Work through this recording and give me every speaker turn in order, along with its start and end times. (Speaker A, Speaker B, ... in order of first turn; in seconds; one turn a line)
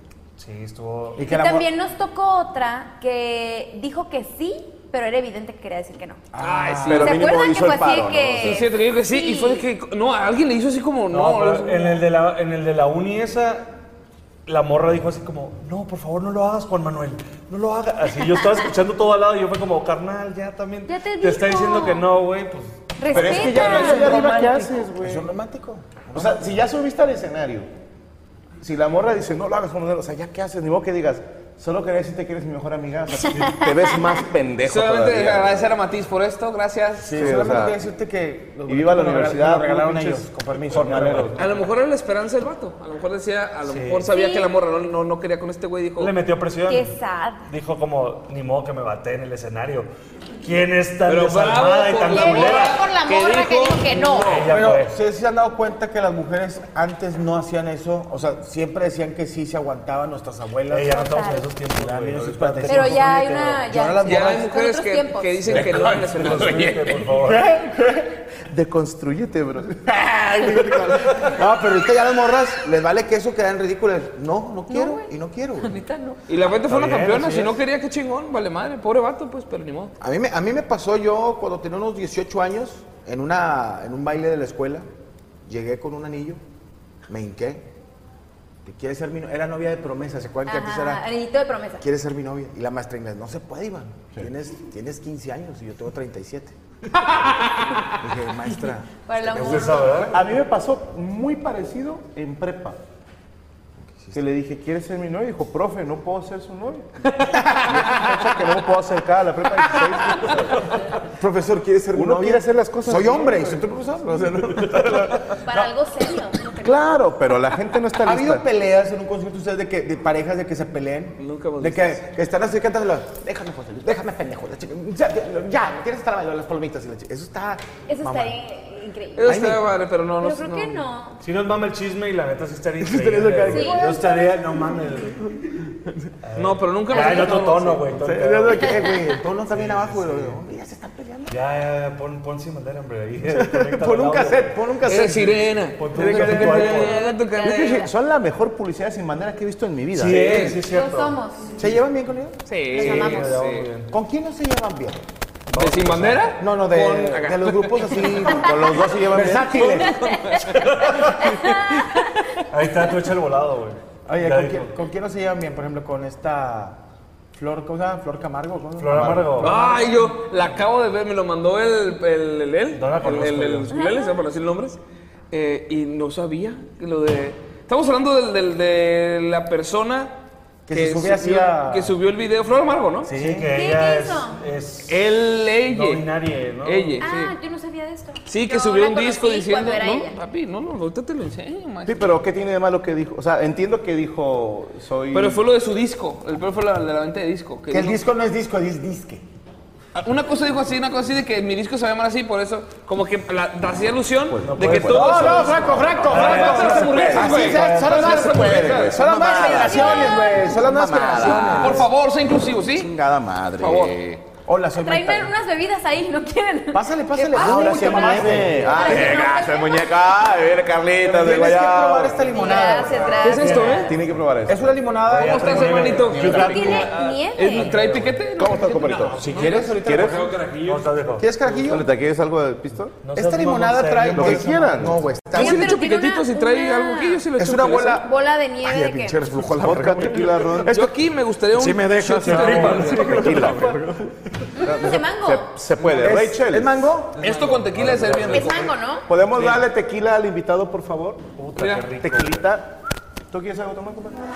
Speaker A: 0.4-1.3
Speaker B: 1.2-1.7
Speaker C: 1.2-6.2
Speaker B: 6.3-7.2
Speaker D: 6.4-7.3
Speaker E: 6.9-8.7
Speaker C: 7.0-9.6
Speaker D: 8.4-12.0
Speaker A: 11.1-13.7
Speaker A: 14.5-22.9
Speaker C: 20.9-22.1
Speaker C: 23.0-24.2
Speaker E: 23.1-25.3
Speaker B: 23.1-26.6
Speaker D: 23.5-24.6
Speaker E: 26.1-27.7
Speaker E: 28.6-35.7
Speaker D: 34.6-37.6
Speaker B: 37.0-41.4
Speaker E: 37.1-37.8
Speaker E: 38.6-41.4
Speaker A: 40.7-41.3
Speaker D: 41.4-46.1
Speaker A: 43.6-44.1
Speaker C: 44.1-44.5
Speaker A: 46.0-49.9
Speaker C: 46.7-47.5
Speaker A: 50.4-52.9
Speaker D: 51.0-54.5
Speaker C: 52.1-54.4
Speaker A: 54.1-55.0
Speaker B: 54.3-61.1
Speaker A: 60.7-63.2
Speaker C: 61.0-61.5
Speaker B: 61.6-64.5
Speaker C: 62.7-65.5
Speaker D: 64.0-66.9
Speaker E: 65.4-67.9
Speaker A: 65.5-67.5
Speaker B: 67.4-67.9
Speaker E: 68.5-71.2
Speaker B: 70.4-75.8
Speaker C: 74.7-75.1
Speaker C: 75.6-76.2
Speaker D: 76.3-79.9
Speaker A: 76.5-77.6
Speaker B: 80.0-84.9
Speaker B: 85.5-86.4
Speaker B: 87.1-87.7
Speaker B: 88.6-91.0
Speaker C: 90.5-91.8
Speaker B: 91.8-96.5
Speaker B: 98.0-99.8
Speaker C: 99.0-100.1
Speaker A: 99.2-100.2
Speaker E: 100.1-102.8
Speaker E: 104.1-107.0
Speaker B: 107.3-108.0
Speaker E: 107.5-110.6
Speaker B: 111.1-115.6
Speaker E: 111.9-113.6
Speaker C: 115.4-116.8
Speaker E: 116.5-118.4
Speaker B: 118.0-128.3
Speaker D: 121.2-122.0
Speaker C: 127.9-129.4
Speaker D: 129.2-130.8
Speaker B: 129.2-129.7
Speaker C: 130.2-131.2
Speaker A: 131.2-135.3
Speaker B: 132.8-134.4
Speaker C: 133.5-133.9
Speaker A: 136.2-138.9
Speaker D: 136.3-137.8
Speaker C: 136.9-137.3
Speaker B: 137.9-141.4
Speaker C: 138.6-139.0
Speaker A: 139.4-140.4
Speaker A: 141.3-144.6
Speaker B: 143.2-146.8
Speaker D: 144.8-147.8
Speaker A: 145.8-147.1
Speaker C: 146.7-147.9
Speaker E: 147.4-150.4
Speaker A: 149.9-151.2
Speaker D: 150.0-150.6
Speaker C: 150.5-151.5
Speaker B: 151.6-152.4
Speaker D: 152.5-153.7
Speaker A: 152.7-153.9
Speaker C: 152.7-153.3
Speaker B: 153.9-155.0
Speaker A: 155.5-156.2
Speaker D: 155.5-158.2
Speaker E: 155.6-156.0
Speaker B: 156.4-158.5
Speaker E: 158.3-159.8
Speaker B: 159.1-160.0
Speaker D: 159.5-161.4
Speaker C: 159.8-160.4
Speaker A: 160.4-161.6
Speaker A: 162.4-164.7
Speaker B: 164.1-166.8
Speaker B: 167.3-169.9
Speaker A: 168.8-169.7
Speaker E: 168.9-169.5
Speaker D: 169.4-174.8
Speaker A: 172.7-173.8
Speaker C: 173.7-174.2
Speaker D: 175.3-180.1
Speaker B: 180.7-181.9
Speaker D: 180.7-183.1
Speaker B: 183.0-183.5
Speaker A: 183.1-187.1
Speaker C: 183.5-184.4
Speaker D: 184.9-186.1
Speaker D: 186.6-187.3
Speaker C: 187.0-190.2
Speaker D: 188.3-192.2
Speaker E: 191.8-195.4
Speaker D: 195.1-198.0
Speaker B: 197.7-199.2
Speaker D: 199.9-208.8
Speaker E: 204.3-211.9
Speaker A: 204.4-208.4
Speaker B: 204.8-211.9
Speaker C: 209.1-211.5
Speaker D: 211.6-212.9
Speaker E: 212.7-214.2
Speaker D: 213.6-213.9
Speaker B: 214.4-215.3
Speaker C: 214.8-219.9
Speaker B: 216.7-219.2
Speaker E: 217.3-222.4
Speaker B: 221.0-223.4
Speaker C: 222.2-223.8
Speaker A: 222.4-224.1
Speaker E: 223.2-224.8
Speaker D: 223.2-223.9
Speaker B: 224.4-226.2
Speaker A: 225.1-229.8
Speaker D: 225.1-230.9
Speaker E: 226.1-226.9
Speaker C: 226.4-227.7
Speaker E: 227.7-229.3
Speaker B: 229.2-230.4
Speaker E: 229.8-230.3
Speaker A: 230.6-231.8
Speaker B: 231.2-231.8
Speaker E: 231.7-233.0
Speaker A: 233.0-235.2
Speaker B: 233.1-235.8
Speaker E: 234.1-234.9
Speaker C: 235.3-237.3
Speaker D: 235.3-238.0
Speaker B: 237.3-238.1
Speaker C: 238.0-239.3
Speaker B: 238.6-240.9
Speaker E: 239.3-240.8
Speaker D: 240.5-243.7
Speaker B: 241.5-244.1
Speaker A: 242.0-243.7
Speaker E: 243.0-243.8
Speaker C: 244.6-245.5
Speaker E: 244.6-247.0
Speaker B: 245.8-247.1
Speaker A: 247.2-248.8
Speaker D: 247.2-248.7
Speaker C: 248.3-249.0
Speaker E: 249.1-251.2
Speaker A: 249.3-249.6
Speaker A: 251.3-252.4
Speaker D: 251.6-251.9
Speaker E: 252.0-252.7
Speaker E: 253.3-254.2